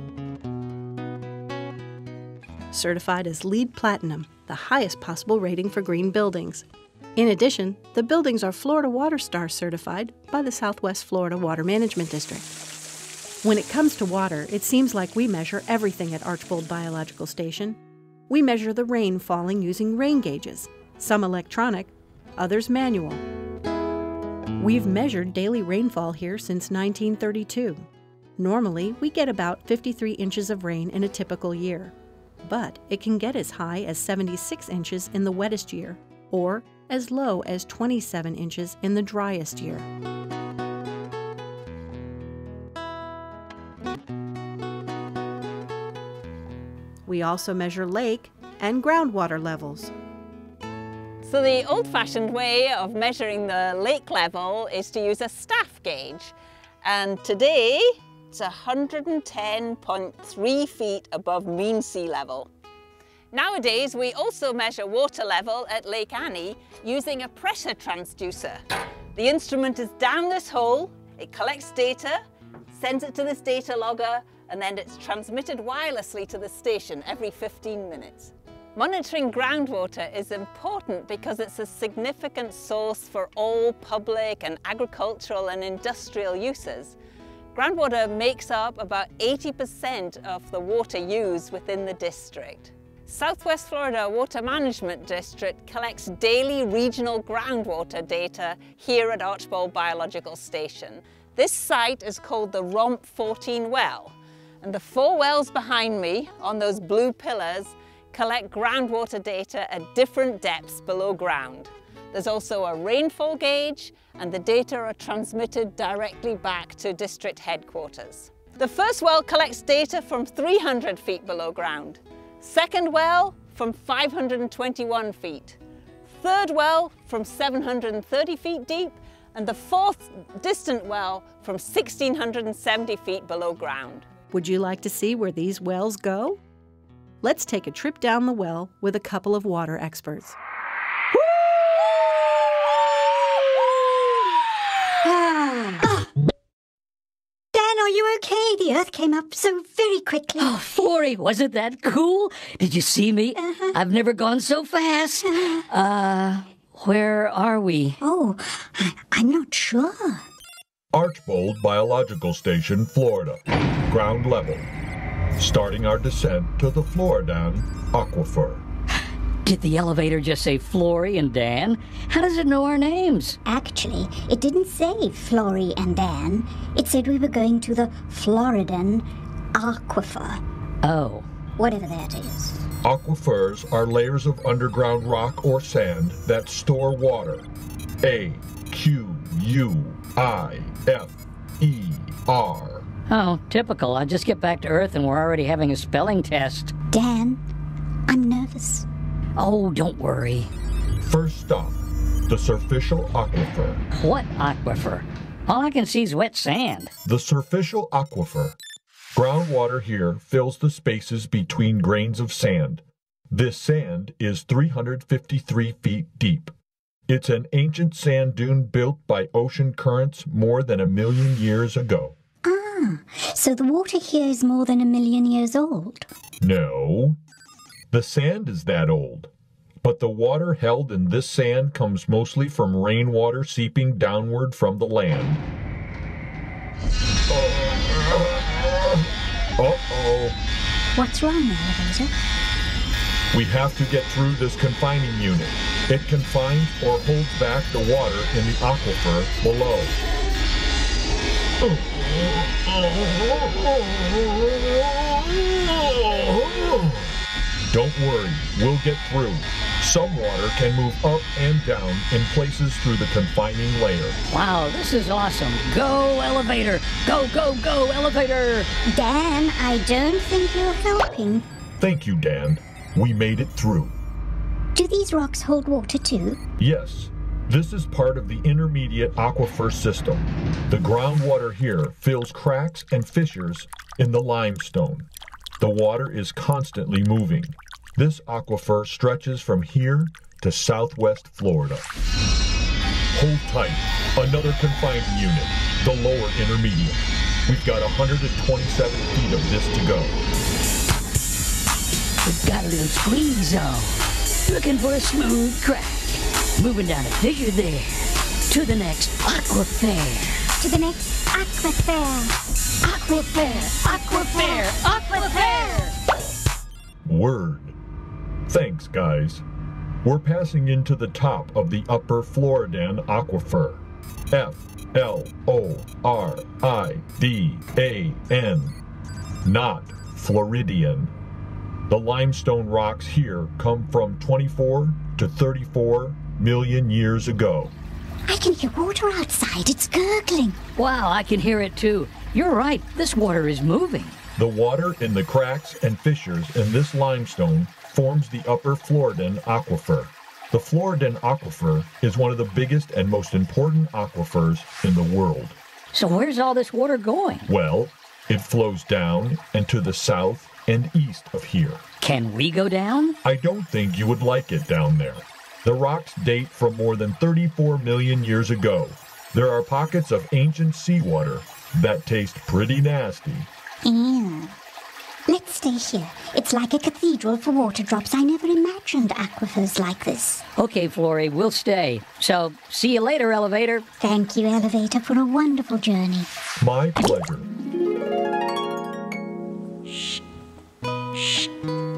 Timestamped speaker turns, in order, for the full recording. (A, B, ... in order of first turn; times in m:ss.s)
0:02.7-0:12.5 A
0:13.4-0:17.8 A
0:18.3-0:23.2 A
0:24.6-0:27.8 A
0:28.4-0:39.9 A
0:47.0-0:49.9 A
0:51.2-1:02.5 B
1:03.3-1:08.6 B
1:09.1-1:12.2 B
1:12.7-1:27.0 B
1:27.5-2:14.1 B
2:14.3-2:16.4 A
2:17.2-2:20.4 A
2:25.0-2:26.1 C
2:27.5-2:30.9 C
2:30.4-2:38.0 D
2:33.4-2:33.7 C
2:38.0-2:40.2 C
2:40.9-2:44.7 E
2:45.4-2:48.6 E
2:49.4-2:53.4 D
2:53.4-3:00.4 C
3:00.8-3:01.3 D
3:01.6-3:02.6 C
3:02.8-3:07.5 E
3:08.0-3:12.8 E
3:13.1-3:16.7 D
3:16.9-3:17.4 C
3:18.1-3:18.8 C
3:19.4-3:20.5 D
3:21.0-3:23.8 E
3:23.9-3:26.9 D
3:27.0-3:28.6 E
3:29.1-3:36.5 E
3:37.1-3:42.2 E
3:42.4-3:46.1 C
3:46.4-3:47.2 E
3:47.9-3:49.3 E
3:49.8-3:55.4 E
3:57.3-3:59.0 E
3:59.6-4:00.4 E
4:00.9-4:02.1 C
4:03.3-4:10.0 E
4:11.6-4:17.1 E
4:17.7-4:24.2 E
4:24.3-4:28.7 D
4:28.9-4:31.4 C
4:31.8-4:34.0 E
4:34.7-4:36.4 C
4:36.6-4:45.1 E
4:45.6-4:51.8 E
4:53.1-5:00.2 E
5:02.2-5:10.4 D
5:10.6-5:12.4 C
5:12.8-5:15.9 D
5:13.9-5:14.7 C
5:17.0-5:17.8 E
5:18.5-5:19.4 E
5:20.0-5:28.8 E
5:29.4-5:31.1 E
5:31.9-5:37.7 E
5:38.3-5:40.6 C
5:40.8-5:44.2 D
5:44.4-5:55.6 E
5:55.9-5:57.5 D
5:57.5-6:01.8 E
6:02.0-6:03.2 D
6:03.2-6:13.5 E
6:13.8-6:14.5 C
6:15.3-6:20.4 C
6:20.6-6:23.8 D
6:24.0-6:26.3 C
6:26.6-6:27.5 E